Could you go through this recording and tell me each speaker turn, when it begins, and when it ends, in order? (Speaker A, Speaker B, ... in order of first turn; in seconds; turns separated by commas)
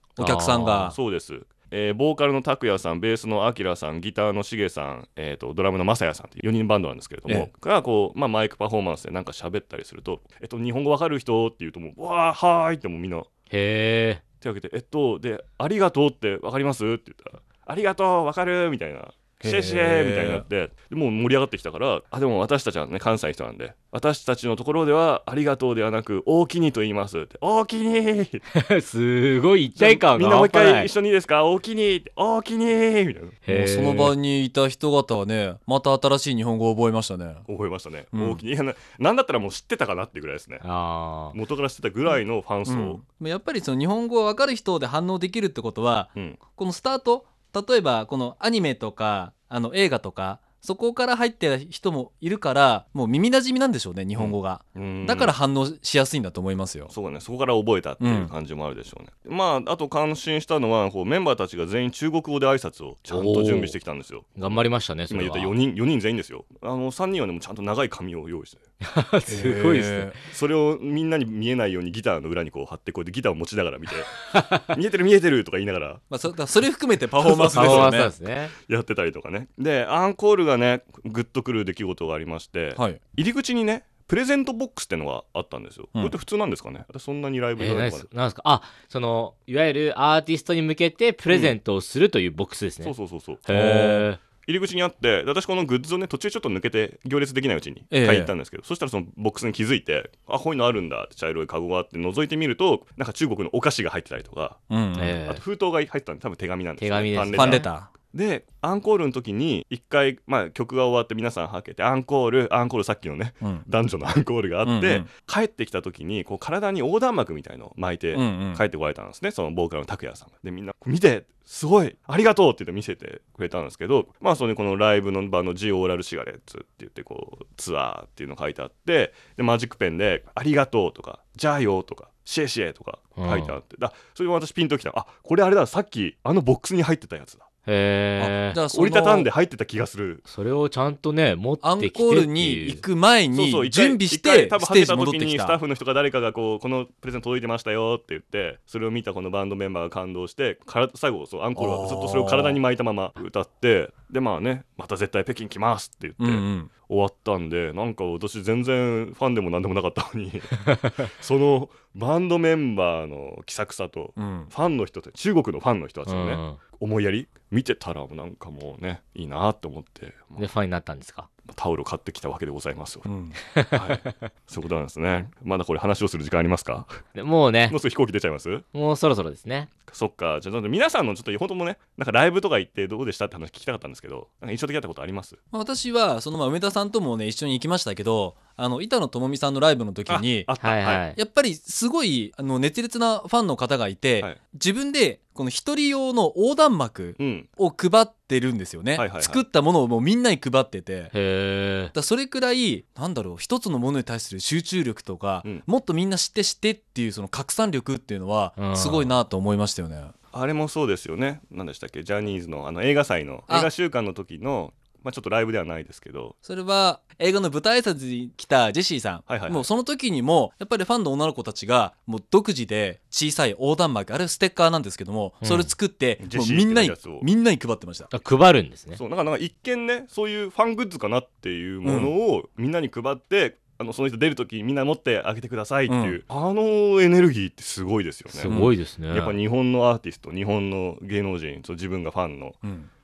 Speaker A: 0.2-1.0, Speaker B: 0.2-0.9, Speaker C: 0.8-13.3, Speaker B: 13.5-14.2, Speaker C: 14.4-28.4, Speaker A: 19.4-20.5, Speaker B: 28.5-30.9, Speaker C: 29.8-33.4, Speaker B: 33.4-34.1, Speaker A: 33.5-37.5, Speaker C: 37.5-40.6, Speaker A: 38.1-38.4, Speaker B: 40.6-41.4, Speaker C: 41.3-43.0, Speaker A: 42.6-56.9, Speaker C: 54.2-55.4, Speaker C: 56.9-68.6, Speaker A: 58.0-58.3, Speaker B: 63.1-63.8, Speaker B: 64.4-65.6, Speaker B: 68.8-70.2, Speaker A: 69.3-70.2, Speaker C: 70.3-76.0, Speaker B: 74.1-74.7, Speaker A: 76.1-78.1, Speaker C: 77.2-78.0, Speaker B: 77.5-78.5, Speaker C: 78.6-88.1, Speaker B: 87.6-94.2, Speaker C: 91.3-91.5, Speaker C: 92.8-93.5, Speaker A: 93.5-94.1, Speaker C: 94.4-104.6, Speaker A: 97.9-98.3, Speaker A: 104.7-105.2, Speaker B: 105.0-105.4, Speaker C: 105.3-137.5, Speaker B: 106.8-107.7, Speaker A: 107.3-107.9, Speaker A: 114.6-115.1, Speaker A: 118.1-118.6, Speaker B: 133.2-133.6, Speaker B: 137.7-138.6, Speaker A: 138.2-139.3, Speaker C: 138.7-140.2, Speaker B: 140.2-142.8, Speaker A: 141.6-145.6, Speaker C: 143.3-170.5, Speaker A: 151.6-152.6, Speaker A: 156.2-156.7, Speaker A: 164.2-164.5, Speaker B: 166.1-166.6, Speaker B: 170.4-171.3, Speaker C: 171.5-173.1, Speaker A: 173.1-173.4, Speaker B: 173.4-174.2, Speaker C: 173.7-176.9, Speaker B: 177.1-177.8, Speaker C: 177.7-178.6, Speaker B: 178.7-179.7, Speaker C: 179.9-185.4, Speaker A: 185.5-190.5, Speaker C: 190.1-191.1, Speaker B: 190.6-191.2, Speaker A: 191.1-201.1, Speaker C: 197.2-197.5, Speaker C: 199.0-199.4, Speaker B: 201.1-201.9, Speaker A: 201.9-210.1, Speaker B: 208.6-209.1, Speaker C: 210.3-216.3, Speaker A: 216.4-228.1, Speaker C: 219.3-219.7, Speaker B: 225.4-225.8, Speaker C: 226.2-227.3, Speaker B: 228.1-229.0, Speaker C: 228.9-242.6, Speaker A: 231.8-232.1, Speaker A: 235.9-236.2, Speaker B: 238.3-239.4, Speaker A: 238.5-238.8, Speaker A: 242.6-242.9